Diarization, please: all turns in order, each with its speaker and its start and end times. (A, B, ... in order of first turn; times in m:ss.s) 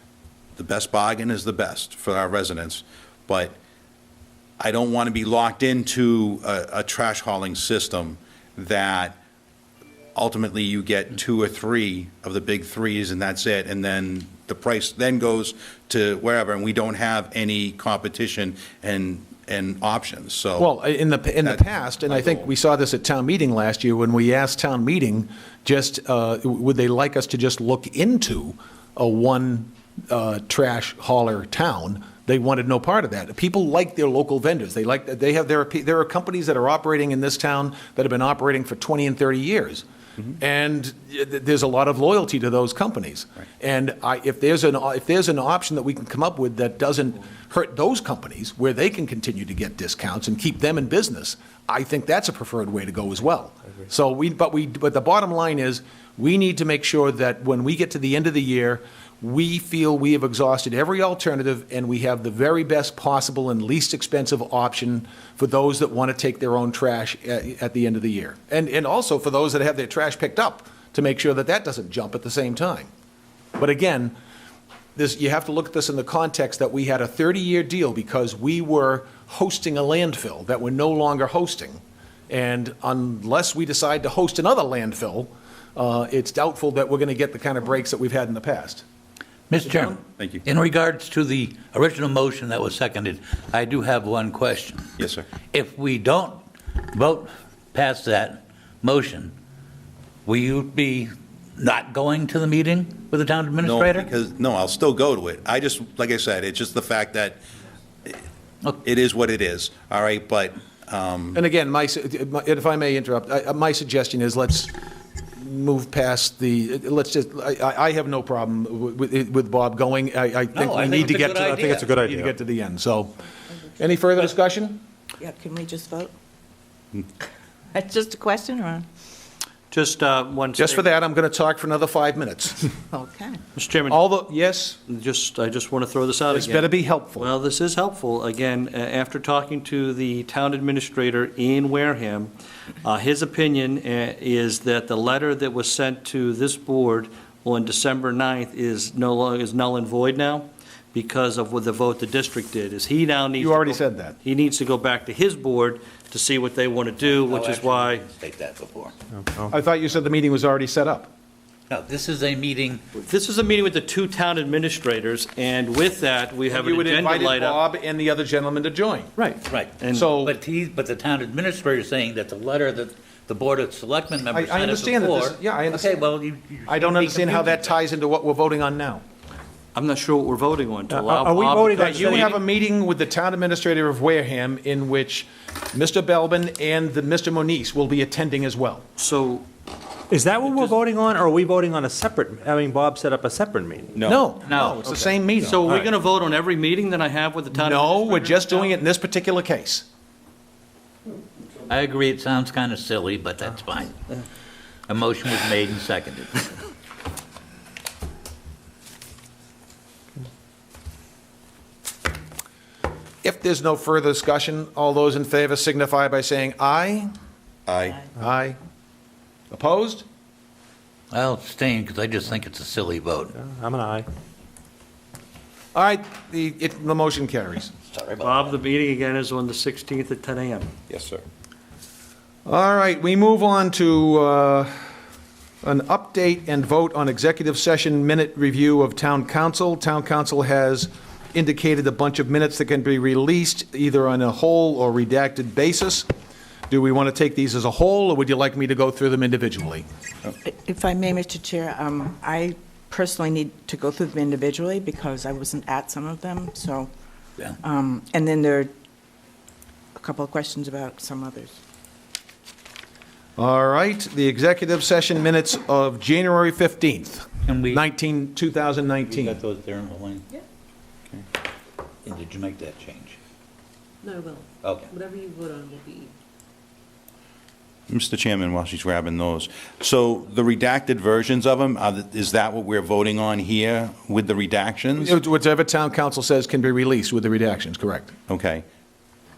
0:00.6-0:03.6 A
0:04.6-0:09.2 A
0:10.1-0:20.7 A
0:20.6-0:39.8 B
0:21.4-0:22.4 A
0:40.4-1:12.9 B
1:13.6-1:14.1 B
1:15.0-1:28.8 B
1:29.5-1:35.0 C
1:30.2-1:30.4 A
1:35.0-1:35.2 A
1:35.5-1:39.3 C
1:40.2-1:44.1 C
1:43.6-1:47.4 A
1:48.8-1:51.4 A
1:51.3-1:54.7 B
1:55.4-2:03.1 B
2:00.5-2:02.0 C
2:01.8-2:02.3 D
2:03.8-2:04.8 B
2:05.2-2:06.1 E
2:07.7-2:08.8 E
2:09.7-2:10.8 F
2:10.6-2:12.7 B
2:12.9-2:13.4 E
2:13.5-2:14.1 F
2:13.9-2:14.8 B
2:14.9-2:22.3 F
2:16.3-2:17.3 B
2:22.8-2:38.0 F
2:33.4-2:34.2 B
2:37.0-2:38.9 C
2:39.5-2:41.1 B
2:41.7-2:42.8 C
2:43.0-2:47.6 F
2:46.5-2:49.2 B
2:49.4-2:57.8 C
2:49.8-2:50.1 F
2:49.9-2:50.3 B
2:54.3-2:56.0 B
2:56.7-2:59.0 B
2:59.7-3:02.3 F
3:00.9-3:02.4 D
3:01.8-3:08.8 B
3:09.0-3:09.4 F
3:10.1-3:14.1 D
3:14.0-3:14.2 A
3:14.0-3:15.6 B
3:14.4-3:14.9 C
3:15.4-3:18.7 F
3:17.5-3:19.8 B
3:21.7-3:23.9 C
3:24.9-3:26.5 C
3:33.2-3:37.1 B
3:37.7-3:38.0 A
3:38.2-3:38.6 B
3:39.5-3:40.0 B
3:41.1-3:43.3 C
3:43.3-3:44.1 D
3:45.7-3:47.7 B
3:47.9-3:48.6 C
3:48.2-3:50.7 F
3:50.9-3:51.2 A
3:52.4-3:54.7 B
3:55.6-4:06.0 B
4:06.7-4:09.8 B
4:10.4-4:16.9 E
4:17.6-4:18.7 E
4:20.0-4:21.6 E
4:23.4-4:29.4 B
4:27.4-4:27.8 C
4:29.1-4:30.2 C
4:32.0-4:33.2 C
4:34.0-4:36.1 G
4:34.6-4:34.9 C
4:37.9-4:45.2 A
4:45.0-4:48.1 B
4:48.3-4:48.6 A